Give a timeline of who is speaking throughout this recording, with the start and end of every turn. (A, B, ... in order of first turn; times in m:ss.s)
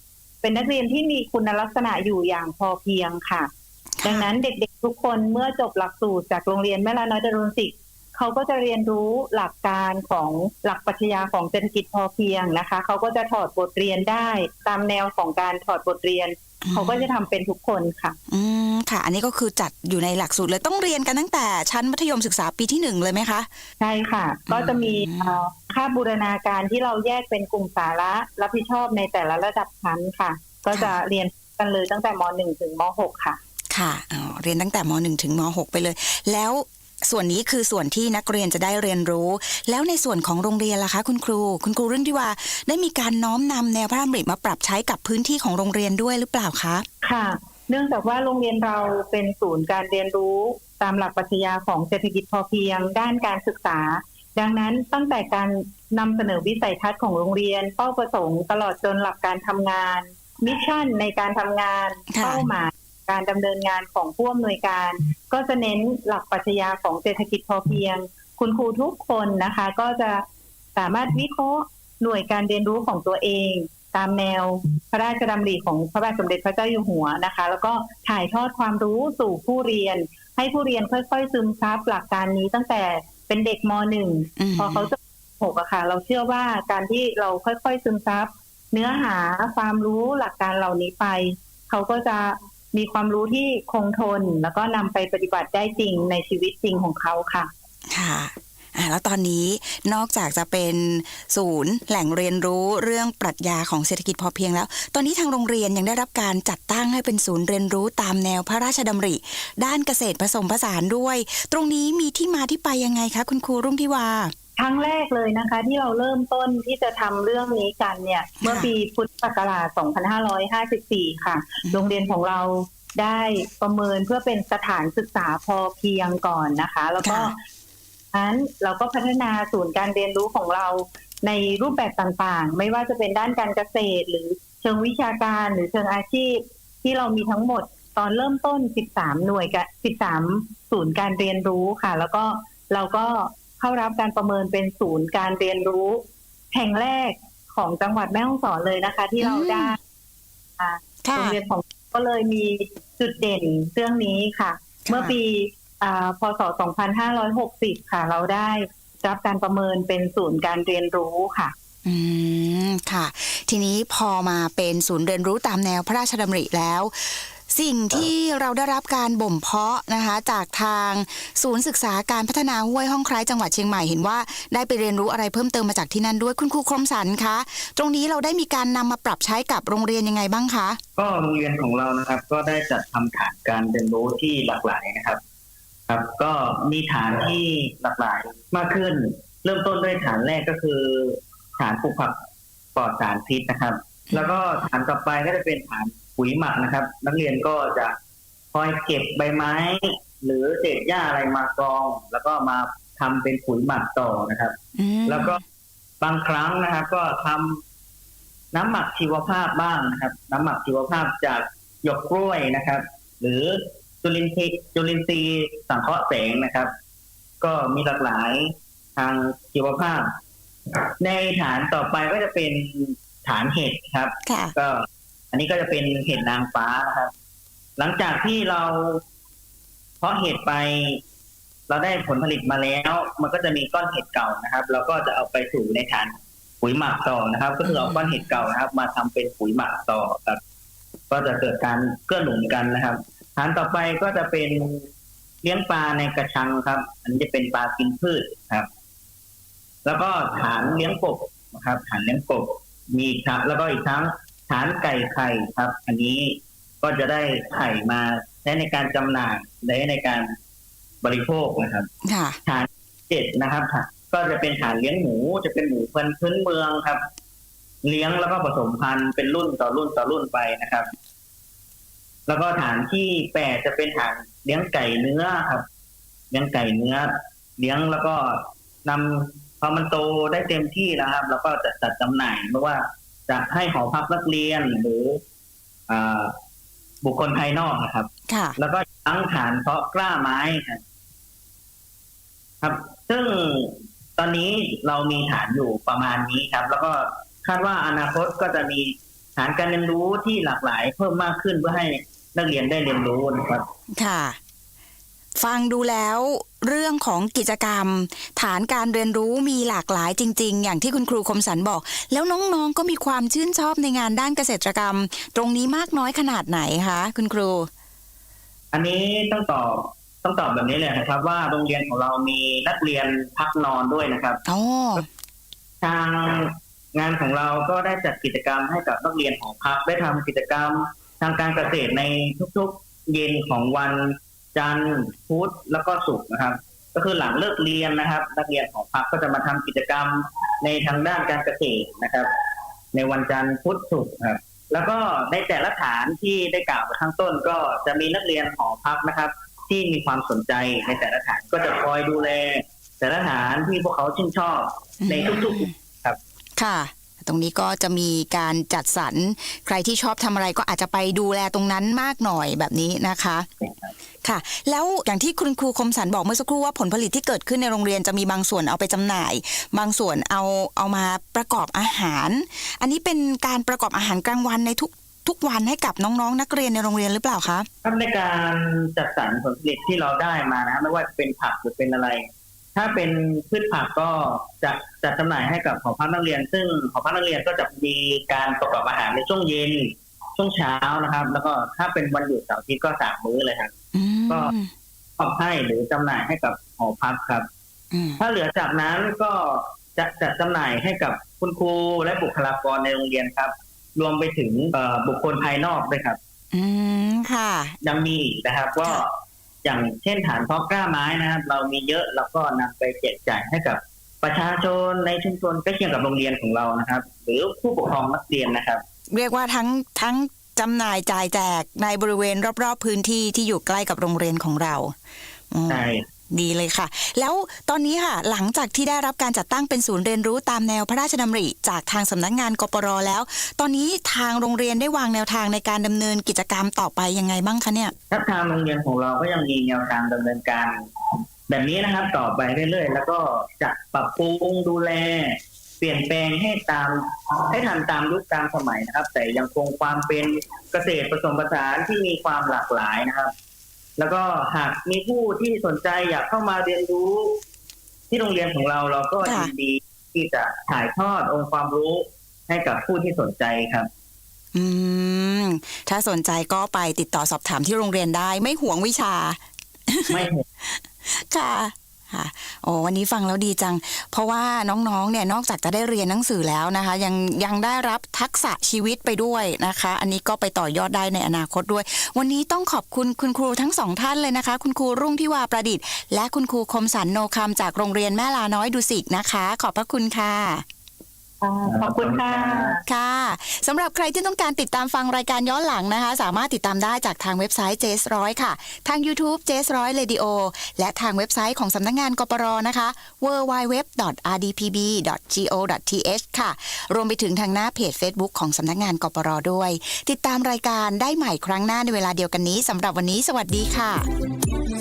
0:00.4-0:03.5 A
0:04.0-0:04.3 B
0:04.0-0:18.2 A
0:16.6-0:17.1 B
0:18.3-0:23.5 B
0:23.8-0:33.4 A
0:24.5-0:25.4 B
0:33.7-0:46.8 B
0:47.0-1:10.2 A
1:02.1-1:02.4 B
1:10.8-1:37.5 A
1:24.4-1:24.9 B
1:37.9-1:54.3 B
1:54.6-2:07.4 A
1:58.4-1:58.7 B
2:07.0-2:07.3 B
2:08.1-2:29.8 A
2:29.2-2:29.8 B
2:30.6-2:41.5 A
2:31.0-2:31.4 B
2:34.9-2:35.2 B
2:41.8-3:00.8 B
3:01.0-3:05.2 C
3:05.9-3:12.2 C
3:12.8-3:17.9 C
3:14.1-3:14.4 B
3:18.5-3:24.5 C
3:24.8-3:25.4 B
3:25.1-3:25.4 C
3:26.0-3:27.6 C
3:28.5-3:36.7 C
3:37.4-3:40.1 C
3:41.0-3:47.1 C
3:44.3-3:44.5 B
3:47.8-3:49.0 C
3:50.0-3:51.0 C
3:51.7-4:00.4 C
3:57.6-3:58.2 B
4:01.1-4:04.8 C
4:05.4-4:08.7 C
4:09.8-4:20.3 C
4:21.0-4:21.9 C
4:22.0-4:22.4 B
4:22.5-4:27.0 C
4:27.8-4:30.9 C
4:32.3-4:35.7 C
4:36.3-4:45.2 C
4:45.9-4:46.3 C
4:47.0-4:50.8 C
4:48.3-4:48.6 B
4:52.6-5:03.7 C
5:04.0-5:04.4 B
5:05.4-5:17.7 B
5:18.7-5:24.4 C
5:24.5-5:25.0 B
5:25.8-5:42.3 C
5:42.9-5:56.2 C
5:55.0-5:55.7 B
5:56.6-6:03.5 B
6:03.6-6:03.9 C
6:04.2-6:17.7 B
6:17.8-6:33.7 C
6:33.9-6:34.7 B
6:35.2-6:37.5 C
6:37.9-6:38.2 B
6:38.2-6:46.2 C
6:46.5-6:47.8 B
6:47.8-6:58.8 C
6:59.1-7:05.0 B
7:05.5-7:17.9 B
7:05.7-7:06.0 C
7:18.1-7:20.8 C
7:21.5-7:33.3 C
7:34.0-7:37.4 C
7:38.1-7:43.9 C
7:39.2-7:39.5 B
7:44.5-7:49.4 B
7:49.9-8:10.6 B
7:50.1-7:50.4 C
8:11.4-8:12.8 A
8:11.7-8:12.8 C
8:12.9-8:34.1 B